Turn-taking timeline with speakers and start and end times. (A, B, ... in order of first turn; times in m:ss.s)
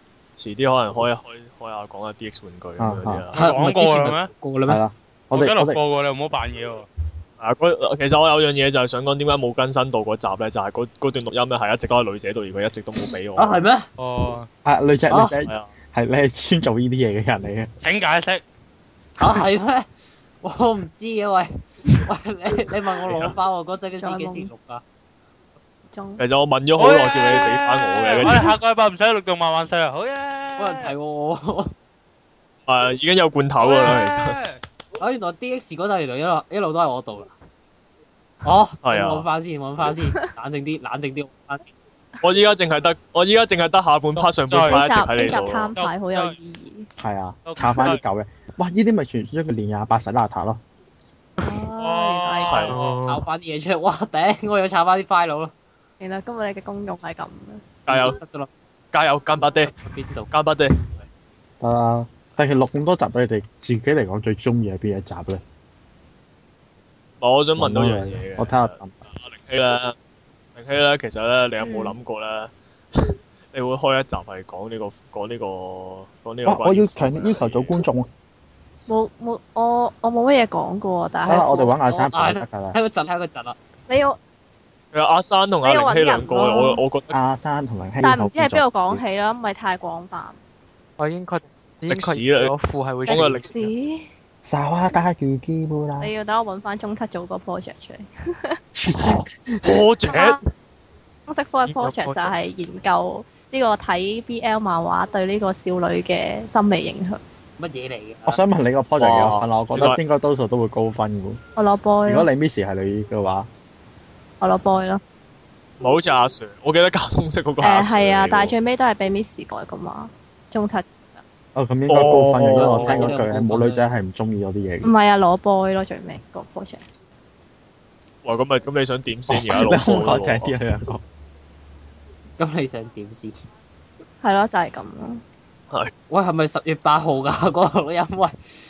0:00.4-0:03.5 A
0:02.8-0:03.3 B
0:03.4-0:04.3 C
0:03.4-0:04.8 D
0:04.7-0:05.8 B
0:05.3-0:06.9 C
0:07.4-0:13.6 A
0:13.4-0:13.9 D
0:14.0-0:14.5 C
0:14.6-0:17.7 B
0:15.1-0:15.4 D
0:15.4-0:15.7 A
0:17.8-0:18.4 C
0:19.2-0:19.9 D
0:20.4-0:24.8 D
0:23.1-0:23.4 A
0:24.0-0:24.5 E
0:25.9-0:26.2 E
0:26.2-0:28.4 A
0:26.8-0:30.9 C
0:28.2-0:28.5 E
0:30.6-0:31.7 D
0:32.7-0:34.4 A
0:33.6-0:34.6 C
0:35.0-0:37.3 D
0:38.4-0:41.6 D
0:38.8-0:39.3 A
0:42.2-0:45.7 A
0:44.2-0:46.4 C
0:44.6-0:46.9 E
0:47.0-0:50.6 B
0:47.5-0:48.0 C
0:51.4-0:52.7 E
0:51.8-0:52.8 C
0:52.4-0:52.8 A
0:52.7-0:53.3 F
0:53.0-0:55.5 D
0:56.0-0:57.7 E
0:57.9-0:58.2 A
0:57.9-0:58.5 D
0:58.9-0:59.7 A
0:59.7-1:00.3 D
1:00.3-1:00.9 A
1:01.6-1:05.4 B
1:07.2-1:10.0 A
1:07.6-1:09.0 B
1:10.6-1:17.8 A
1:11.6-1:12.0 E
1:16.5-1:18.1 B
1:18.9-1:21.7 E
1:21.3-1:22.8 B
1:21.3-1:23.6 D
1:23.9-1:24.2 E
1:24.9-1:27.1 A
1:25.6-1:26.8 E
1:27.1-1:29.0 B
1:28.0-1:30.4 E
1:31.0-1:33.7 F
1:31.9-1:32.5 A
1:33.0-1:34.1 E
1:33.1-1:33.5 A
1:34.4-1:36.1 B
1:36.0-1:38.6 E
1:38.8-1:39.3 B
1:39.0-1:40.4 A
1:40.1-1:40.4 E
1:41.3-1:47.2 E
1:41.6-1:42.4 F
1:47.6-1:48.4 D
1:48.3-1:51.4 B
1:49.0-1:50.0 A
1:51.6-1:52.3 E
1:52.1-1:53.5 B
1:54.4-1:55.0 E
1:55.8-1:58.6 A
1:57.6-2:01.2 E
2:01.6-2:04.9 B
2:01.9-2:03.1 A
2:02.4-2:04.0 D
2:04.8-2:06.8 E
2:08.2-2:10.6 A
2:09.3-2:11.0 B
2:12.4-2:13.3 D
2:14.2-2:15.2 E
2:16.1-2:18.4 D